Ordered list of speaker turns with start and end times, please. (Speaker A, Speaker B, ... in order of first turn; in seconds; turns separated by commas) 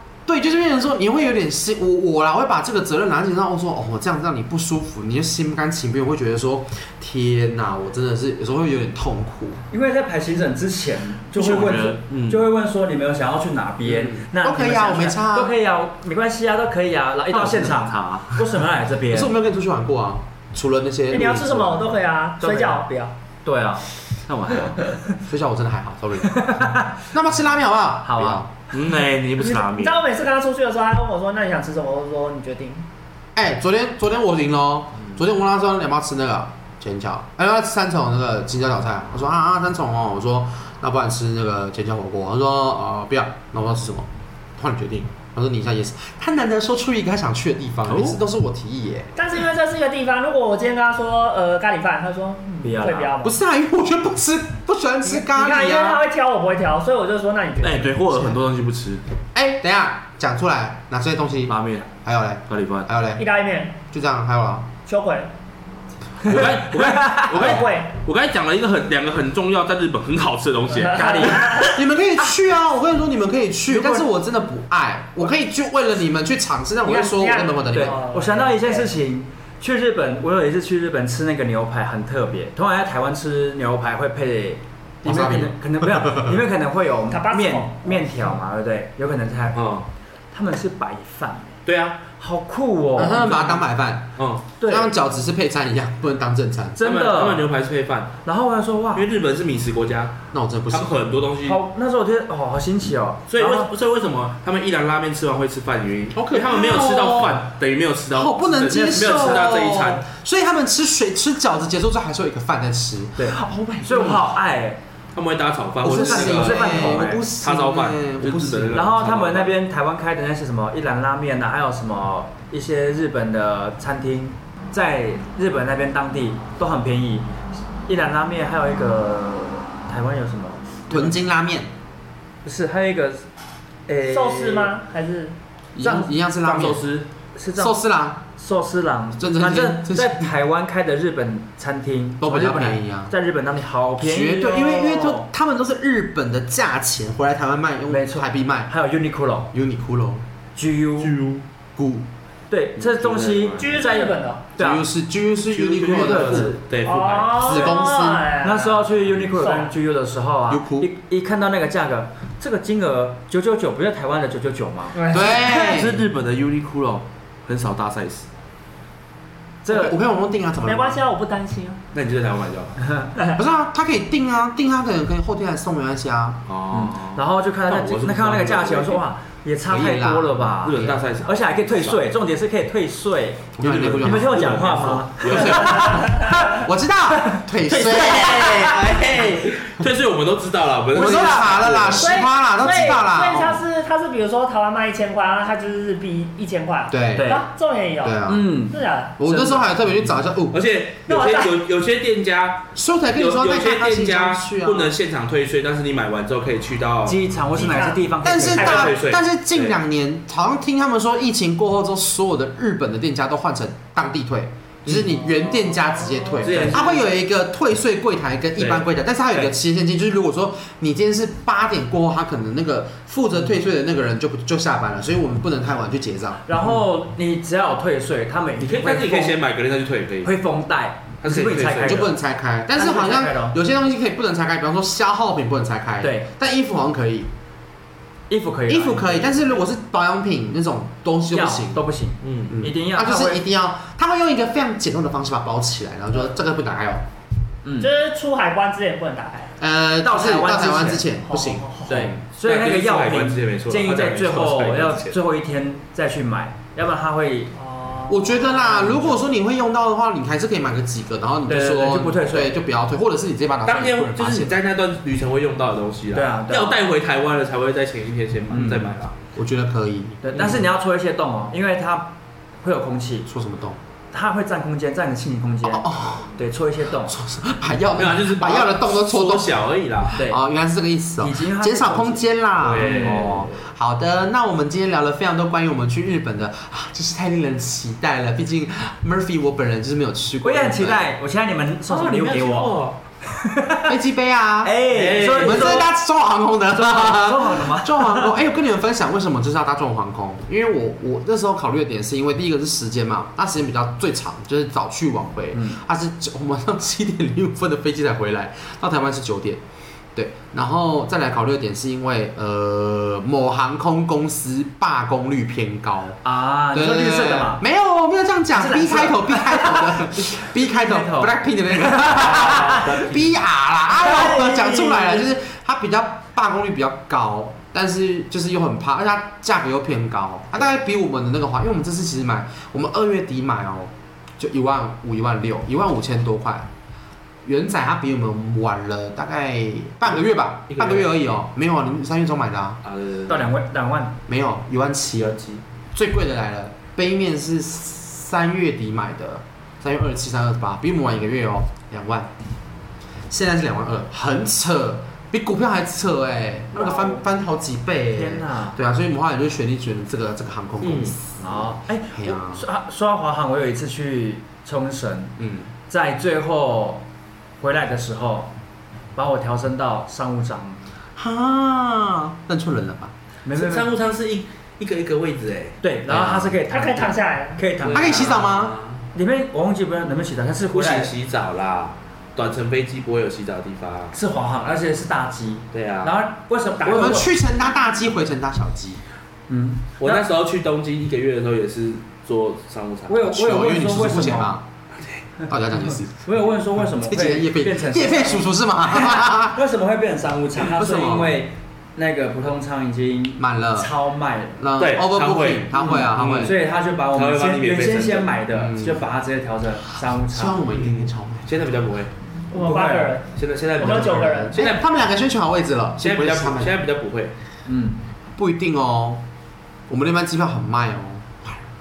Speaker A: 0.2-9.6, Speaker B: 9.7-19.3, Speaker C: 11.3-12.4, Speaker A: 13.8-15.5, Speaker C: 17.3-18.4, Speaker A: 19.1-21.8, Speaker D: 21.1-23.1, Speaker B: 22.4-22.9, Speaker B: 23.4-23.8, Speaker C: 24.3-24.8, Speaker A: 25.2-28.5, Speaker B: 26.2-26.9, Speaker B: 28.0-28.4, Speaker C: 28.7-30.0, Speaker D: 29.4-32.9, Speaker A: 33.3-49.1, Speaker C: 47.9-48.2, Speaker D: 49.1-53.4, Speaker B: 52.6-53.1, Speaker A: 53.2-56.0, Speaker D: 55.0-58.4, Speaker C: 57.6-59.0, Speaker A: 59.3-63.2, Speaker C: 61.5-61.9, Speaker C: 62.5-62.9, Speaker D: 63.2-63.8, Speaker A: 63.9-64.7, Speaker D: 64.8-65.3, Speaker B: 66.2-67.6, Speaker C: 66.2-71.8, Speaker D: 67.3-67.9, Speaker D: 70.8-71.8, Speaker B: 70.9-71.5, Speaker A: 71.7-78.0, Speaker B: 73.7-74.0, Speaker D: 76.8-78.9, Speaker B: 77.7-89.6, Speaker A: 85.0-86.3, Speaker D: 87.1-88.3, Speaker C: 89.5-89.8, Speaker B: 90.3-91.6, Speaker C: 91.6-92.0, Speaker B: 92.1-93.6, Speaker A: 93.0-96.8, Speaker C: 94.2-94.4, Speaker B: 94.6-94.9, Speaker B: 96.8-97.5, Speaker C: 96.8-98.2, Speaker B: 98.2-99.0, Speaker C: 98.9-100.2, Speaker A: 100.3-100.9, Speaker C: 100.7-101.6, Speaker B: 101.4-103.7, Speaker C: 103.3-110.0, Speaker A: 106.2-107.5, Speaker A: 108.1-114.3, Speaker B: 113.2-114.8, Speaker C: 115.1-119.5, Speaker A: 115.8-118.8, Speaker B: 115.8-117.2, Speaker B: 118.7-127.3, Speaker B: 127.8-131.1, Speaker A: 130.9-131.7, Speaker B: 132.4-133.3, Speaker B: 133.9-134.7, Speaker D: 134.1-135.3, Speaker A: 135.8-136.8, Speaker C: 136.4-137.1, Speaker B: 137.3-137.8, Speaker A: 137.6-138.2, Speaker B: 138.3-145.3, Speaker A: 139.2-140.3, Speaker A: 142.2-143.1, Speaker A: 144.0-148.7, Speaker B: 147.9-149.5, Speaker A: 149.5-150.2, Speaker B: 150.6-151.2, Speaker C: 151.0-151.4, Speaker A: 151.8-152.1, Speaker B: 152.5-154.8, Speaker C: 152.8-153.8, Speaker D: 153.6-154.4, Speaker A: 154.6-156.6, Speaker C: 155.5-157.7, Speaker B: 155.9-156.6, Speaker D: 156.8-158.8, Speaker A: 157.4-158.3, Speaker B: 158.4-165.0, Speaker D: 159.4-159.7, Speaker A: 160.5-160.9, Speaker D: 164.9-165.8, Speaker A: 165.1-166.0, Speaker C: 165.5-168.3, Speaker B: 169.6-169.9, Speaker A: 169.7-171.0, Speaker D: 170.6-171.8, Speaker C: 171.9-172.8, Speaker B: 172.8-173.1, Speaker A: 173.3-176.4, Speaker C: 176.5-179.0, Speaker B: 176.7-186.5, Speaker A: 179.7-181.0, Speaker C: 180.6-182.0, Speaker A: 183.6-189.3, Speaker C: 183.6-185.8, Speaker D: 185.5-186.6, Speaker B: 187.3-189.3, Speaker C: 187.7-192.3, Speaker A: 190.9-193.6, Speaker D: 192.0-199.1, Speaker A: 196.9-197.4, Speaker B: 197.1-197.4, Speaker A: 198.0-198.5, Speaker B: 198.3-199.8, Speaker A: 199.2-200.6, Speaker C: 200.5-207.2, Speaker D: 201.1-201.6, Speaker A: 202.8-204.9, Speaker B: 207.0-208.9, Speaker D: 207.5-208.9, Speaker A: 208.2-226.4, Speaker C: 208.5-209.8, Speaker C: 214.8-215.1, Speaker D: 215.2-216.6, Speaker C: 216.4-217.0, Speaker B: 216.6-217.0, Speaker C: 218.6-219.5, Speaker B: 226.5-229.4, Speaker C: 228.6-230.3, Speaker B: 230.2-232.1, Speaker C: 231.2-232.1, Speaker A: 231.8-237.3, Speaker B: 232.7-233.6, Speaker B: 236.0-236.3, Speaker B: 238.3-239.6, Speaker A: 238.7-241.8, Speaker B: 241.3-243.4, Speaker C: 242.2-242.5, Speaker A: 242.5-247.0, Speaker B: 247.6-247.9, Speaker D: 247.8-249.5, Speaker A: 249.6-252.2, Speaker B: 250.0-251.0, Speaker D: 251.3-252.1, Speaker B: 251.9-257.5, Speaker C: 252.4-255.2, Speaker D: 257.5-258.9, Speaker A: 258.1-264.6, Speaker B: 258.6-259.2, Speaker B: 261.5-262.5, Speaker C: 263.6-269.1, Speaker B: 266.1-266.8, Speaker A: 268.5-270.6, Speaker B: 270.2-273.3, Speaker C: 270.3-270.6, Speaker A: 273.3-273.8, Speaker B: 274.1-277.2, Speaker A: 275.6-276.4, Speaker A: 277.1-291.1, Speaker C: 277.9-280.2, Speaker B: 280.1-280.4, Speaker B: 281.2-283.5, Speaker C: 282.6-283.5, Speaker B: 290.4-293.9, Speaker C: 291.9-293.0, Speaker A: 293.9-309.6, Speaker B: 294.6-295.9, Speaker C: 294.9-295.7, Speaker B: 296.7-298.3, Speaker B: 305.5-305.8, Speaker A: 310.1-316.2, Speaker B: 316.2-317.6, Speaker A: 316.7-336.7, Speaker B: 318.5-323.3, Speaker B: 323.9-325.2, Speaker A: 337.4-342.8, Speaker C: 340.7-341.1, Speaker C: 342.8-343.5, Speaker B: 343.3-344.2, Speaker A: 344.3-352.3, Speaker A: 353.3-362.6, Speaker B: 356.7-357.2, Speaker B: 358.1-358.8, Speaker C: 360.8-361.1, Speaker B: 361.4-365.4, Speaker A: 365.4-365.7, Speaker B: 365.9-367.0, Speaker B: 367.6-368.5, Speaker B: 369.1-370.8, Speaker A: 371.2-373.1, Speaker B: 373.4-373.9, Speaker C: 373.5-375.8, Speaker B: 375.8-378.4, Speaker A: 376.1-376.5, Speaker D: 376.7-377.6, Speaker C: 377.8-379.0, Speaker A: 377.9-378.7, Speaker B: 379.1-381.1, Speaker C: 380.7-384.1, Speaker B: 384.1-387.3, Speaker C: 385.7-386.2, Speaker A: 386.8-389.0, Speaker B: 389.5-390.2, Speaker C: 390.0-393.2, Speaker B: 393.1-394.6, Speaker A: 393.2-394.6, Speaker A: 395.5-396.1, Speaker B: 396.1-404.6, Speaker A: 397.0-399.6, Speaker A: 400.6-401.4, Speaker A: 403.4-403.9, Speaker A: 404.6-406.5, Speaker C: 404.8-408.4, Speaker B: 405.8-410.7, Speaker A: 408.5-409.1, Speaker A: 410.1-411.5, Speaker C: 410.7-412.1, Speaker D: 412.5-414.6, Speaker B: 412.6-413.1, Speaker C: 413.3-414.9, Speaker A: 413.8-416.8, Speaker C: 416.0-417.3, Speaker B: 417.6-418.0, Speaker A: 418.4-419.2, Speaker A: 419.9-421.6